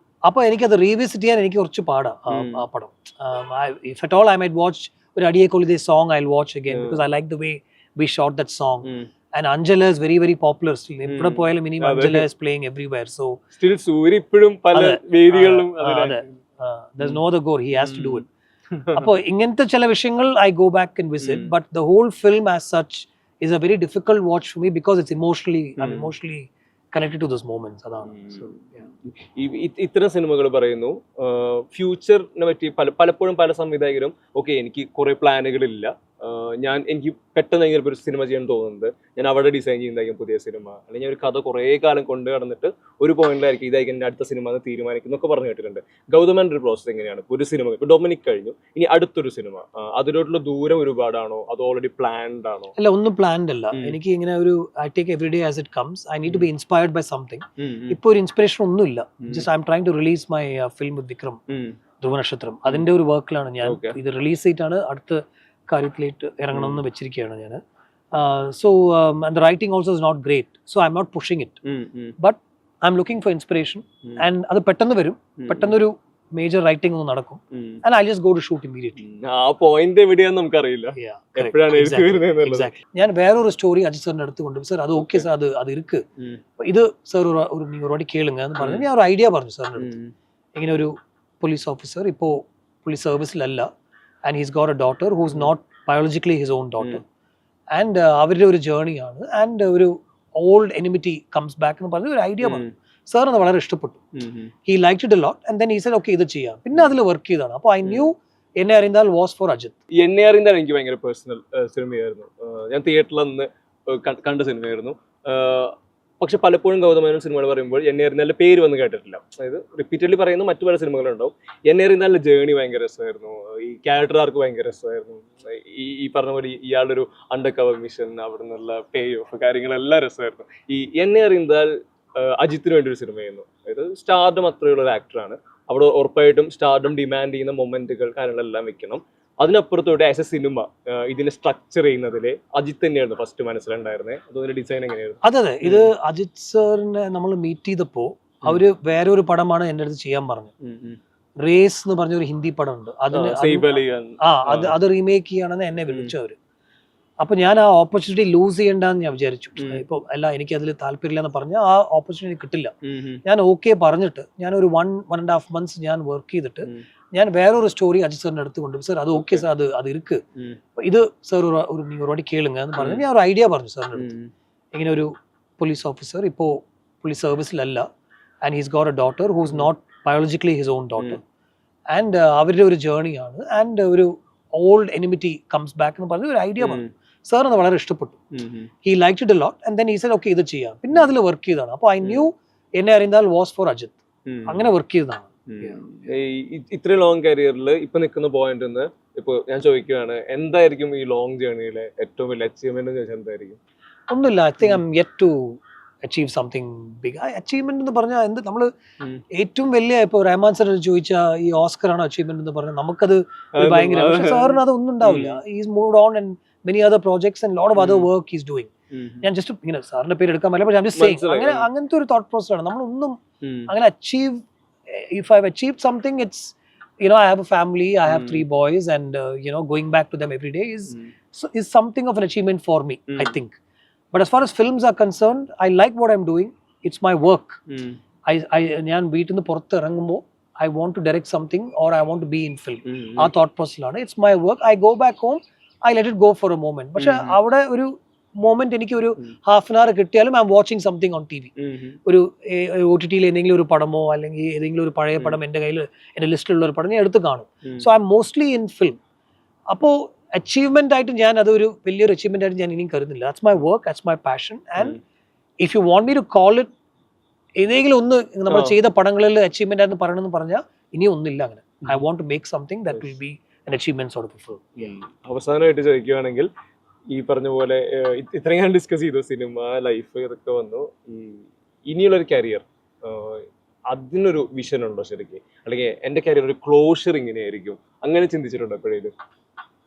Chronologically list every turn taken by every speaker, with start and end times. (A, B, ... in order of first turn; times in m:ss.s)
0:00.2-0:13.4 A
0:02.3-0:02.6 B
0:06.7-0:07.0 B
0:08.8-0:09.1 B
0:11.0-0:12.3 B
0:13.6-0:16.4 B
0:14.7-0:18.2 A
0:17.7-0:19.1 B
0:18.9-0:28.9 A
0:21.2-0:21.5 B
0:25.8-0:26.1 B
0:28.0-0:52.7 B
0:52.8-1:01.4 A
0:53.7-0:54.0 B
0:57.6-0:58.0 B
0:59.2-0:59.5 B
1:01.5-1:01.8 B
1:02.0-1:07.6 A
1:03.6-1:04.0 B
1:06.5-1:06.8 B
1:08.1-1:11.6 A
1:11.6-1:12.2 B
1:12.2-1:19.0 A
1:15.4-1:15.8 B
1:17.5-1:17.8 B
1:19.0-1:22.7 B
1:21.0-1:26.0 A
1:25.0-1:25.2 B
1:26.6-1:29.9 A
1:28.6-1:28.8 B
1:29.8-1:30.1 B
1:30.5-1:33.7 A
1:34.2-1:37.0 A
1:37.7-1:44.0 A
1:42.4-1:42.7 B
1:44.2-1:44.5 B
1:44.6-1:49.8 A
1:47.8-1:48.1 B
1:50.0-2:25.9 B
2:25.2-2:30.5 A
2:30.6-2:31.0 B
2:31.4-2:36.4 A
2:33.1-2:34.8 B
2:35.9-2:36.1 B
2:37.2-2:50.2 A
2:39.6-2:39.8 B
2:42.8-2:43.2 B
2:49.1-2:49.4 B
2:50.8-2:54.1 A
2:52.8-2:53.0 B
2:54.0-2:54.3 B
2:54.7-2:57.9 A
2:58.4-3:01.2 A
3:01.9-3:08.2 A
3:06.6-3:06.9 B
3:08.3-3:08.7 B
3:08.8-3:15.9 A
3:12.0-3:12.3 B
3:14.3-3:14.7 B
3:15.5-3:23.6 B
3:24.1-3:28.7 A
3:29.3-3:38.7 A
3:33.5-3:35.4 B
3:37.8-3:38.1 B
3:38.9-3:39.3 B
3:39.2-3:53.6 A
3:40.9-3:41.7 B
3:43.4-3:43.7 B
3:48.0-3:48.4 B
3:53.1-3:53.4 B
3:54.1-3:57.6 A
3:57.7-3:58.0 B
3:58.3-4:11.5 A
4:02.8-4:03.3 B
4:07.0-4:07.4 B
4:11.6-4:12.0 B
4:12.0-4:19.0 A
4:19.7-4:25.0 A
4:25.6-4:26.7 A
4:27.6-4:35.0 A
4:28.5-4:28.8 B
4:34.9-4:36.5 B
4:37.1-4:49.1 B